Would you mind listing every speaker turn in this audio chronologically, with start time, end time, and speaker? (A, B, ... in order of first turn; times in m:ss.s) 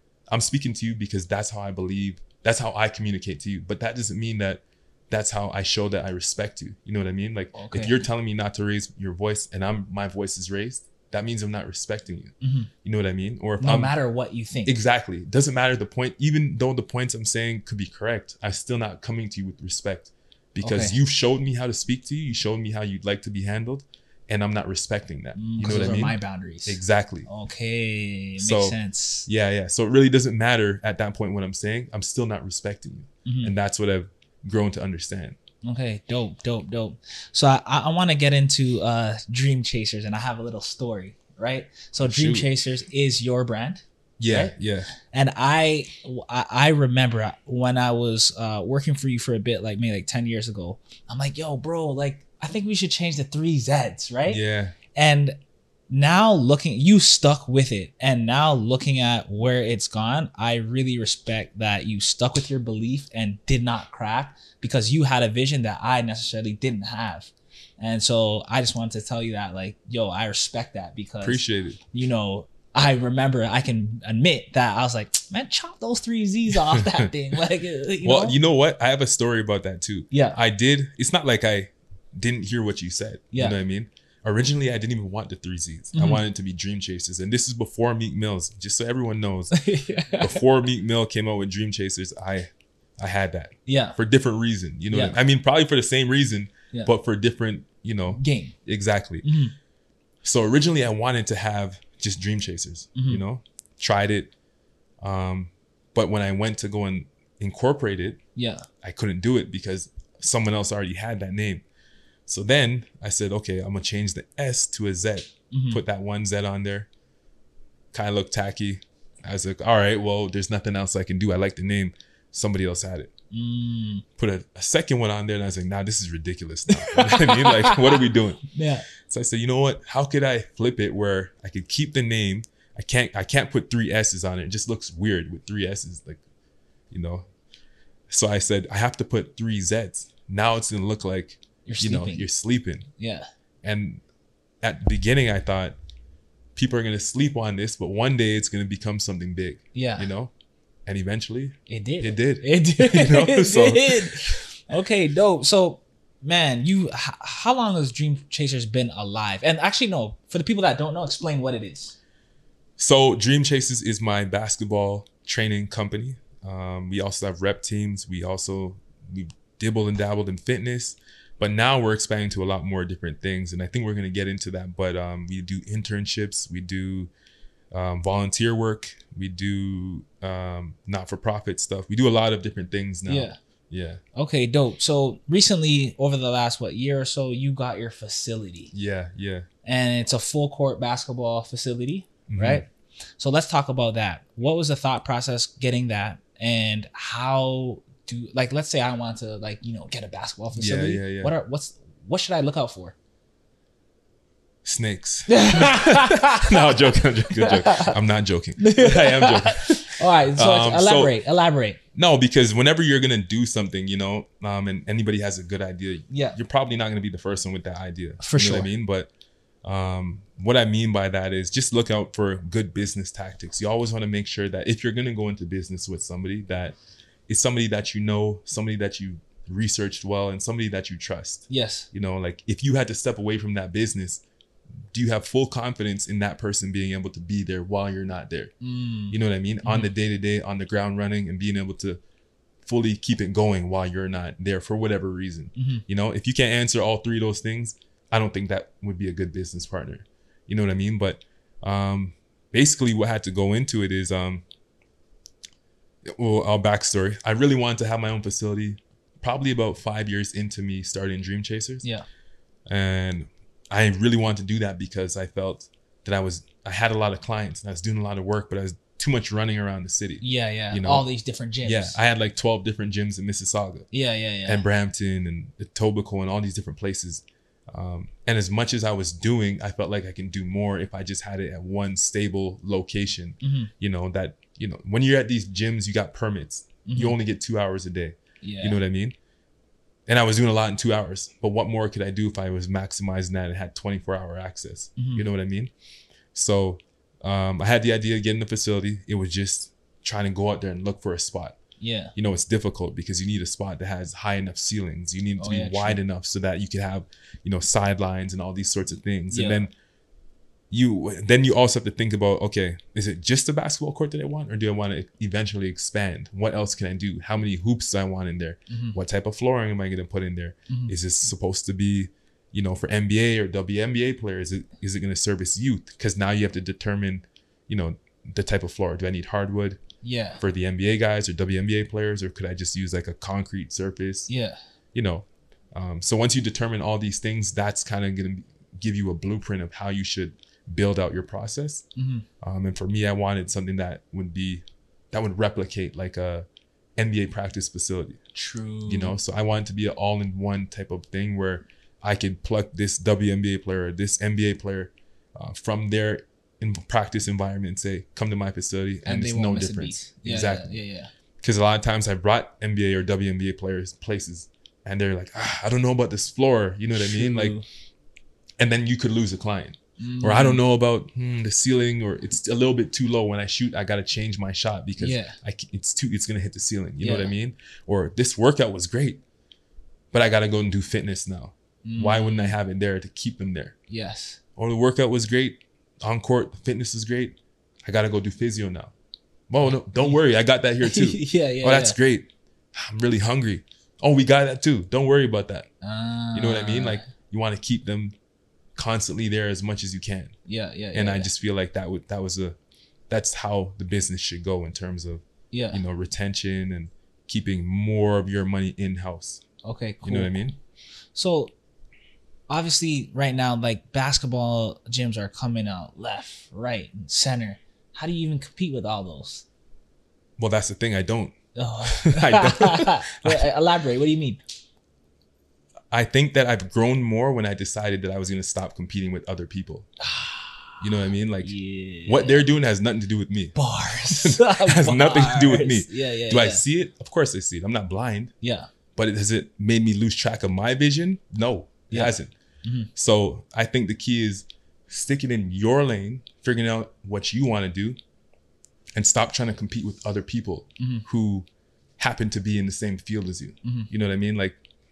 0:00.3-0:13.9 A
0:07.5-0:07.9 B
0:12.4-0:12.7 B
0:13.6-0:14.8 B
0:14.6-0:27.3 A
0:20.6-0:21.0 B
0:25.3-0:29.3 B
0:28.4-0:35.4 A
0:33.2-0:33.5 B
0:35.6-0:54.4 B
0:42.0-0:42.5 A
0:44.2-0:44.9 A
0:54.3-0:54.8 A
0:54.9-0:55.4 B
0:55.9-1:18.4 B
1:11.2-1:11.8 A
1:16.7-1:17.1 A
1:18.0-1:29.6 A
1:20.1-1:20.4 B
1:23.3-1:23.6 B
1:25.9-1:26.2 B
1:29.5-1:30.4 B
1:30.2-1:39.2 A
1:33.6-1:34.0 B
1:34.9-1:35.2 B
1:38.1-1:38.6 B
1:39.2-1:39.5 B
1:40.2-1:44.3 A
1:42.9-1:43.2 B
1:45.0-1:48.2 A
1:48.4-1:48.7 B
1:48.8-1:51.6 A
1:52.3-1:56.9 A
1:55.5-1:55.8 B
1:57.9-2:03.1 A
2:03.3-2:04.0 B
2:04.2-2:08.4 A
2:06.7-2:08.9 B
2:09.0-2:16.2 A
2:16.9-2:17.3 A
2:18.1-2:22.9 A
2:21.6-2:22.3 B
2:23.0-2:23.2 B
2:23.6-2:24.0 A
2:24.6-2:25.8 A
2:26.5-2:30.3 A
2:29.7-2:30.1 B
2:30.8-2:34.4 A
2:31.7-2:42.0 B
2:42.8-2:57.1 A
2:57.7-3:04.0 A
3:03.0-3:03.4 B
3:04.2-3:08.7 B
3:08.7-3:09.5 A
3:09.6-3:12.6 B
3:12.3-3:12.6 A
3:13.2-3:22.9 B
3:20.5-3:21.3 A
3:24.6-3:31.2 A
3:25.3-3:27.9 B
3:28.6-3:31.8 B
3:31.9-3:39.1 A
3:36.1-3:36.4 B
3:38.2-3:38.7 B
3:39.6-3:46.7 A
3:47.3-3:54.2 A
3:51.5-3:51.9 B
3:54.9-3:58.5 A
3:58.6-3:59.9 B
3:59.1-4:02.0 A
4:02.6-4:14.4 A
4:05.5-4:05.8 B
4:16.0-4:21.8 A
4:22.7-4:31.1 A
4:30.2-4:32.0 B
4:31.6-4:33.9 A
4:33.9-4:34.6 B
4:34.4-4:49.2 A
4:43.4-4:43.7 B
4:46.8-4:47.2 B
4:48.4-4:48.8 B
4:50.1-4:55.7 A
4:55.0-4:55.2 B
4:56.3-5:01.6 A
5:01.8-5:02.1 B
5:02.2-5:09.7 A
5:05.4-5:06.0 B
5:09.3-5:09.7 B
5:10.7-5:29.8 A
5:18.7-5:19.0 B
5:20.7-5:20.9 B
5:30.0-5:30.4 B
5:30.4-5:34.3 A
5:34.3-5:34.6 B
5:34.9-5:41.8 A
5:42.0-5:42.2 B
5:42.4-5:48.2 A
5:48.3-5:49.2 B
5:48.9-6:00.8 A
5:59.0-6:01.1 B
6:01.4-6:07.6 A
6:06.9-6:07.6 B
6:08.6-6:19.2 A
6:10.0-6:10.6 B
6:15.0-6:15.4 B
6:17.0-6:17.3 B
6:20.1-6:23.7 A
6:21.8-6:22.5 B
6:23.9-6:24.4 B
6:24.6-6:28.9 A
6:29.5-6:35.7 A
6:29.6-6:30.2 B
6:30.8-6:32.0 B
6:35.8-6:37.1 B
6:36.3-6:38.1 A
6:38.7-6:40.3 A
6:40.4-6:41.3 B
6:40.9-6:42.6 A
6:43.1-6:49.4 A
6:45.5-6:45.8 B
6:49.6-6:50.4 B
6:50.0-6:50.6 A
6:51.1-6:51.5 B
6:52.5-6:59.4 B
7:00.4-7:03.5 A
7:01.5-7:04.4 B
7:05.9-7:09.9 A
7:10.0-7:10.8 B
7:10.8-7:18.3 A
7:11.4-7:12.5 B
7:13.5-7:16.6 B
7:18.4-7:18.7 B
7:19.0-7:22.3 A
7:21.9-7:22.9 B
7:23.0-7:28.0 A
7:29.0-7:31.4 A
7:32.0-7:34.6 A
7:33.6-7:33.9 B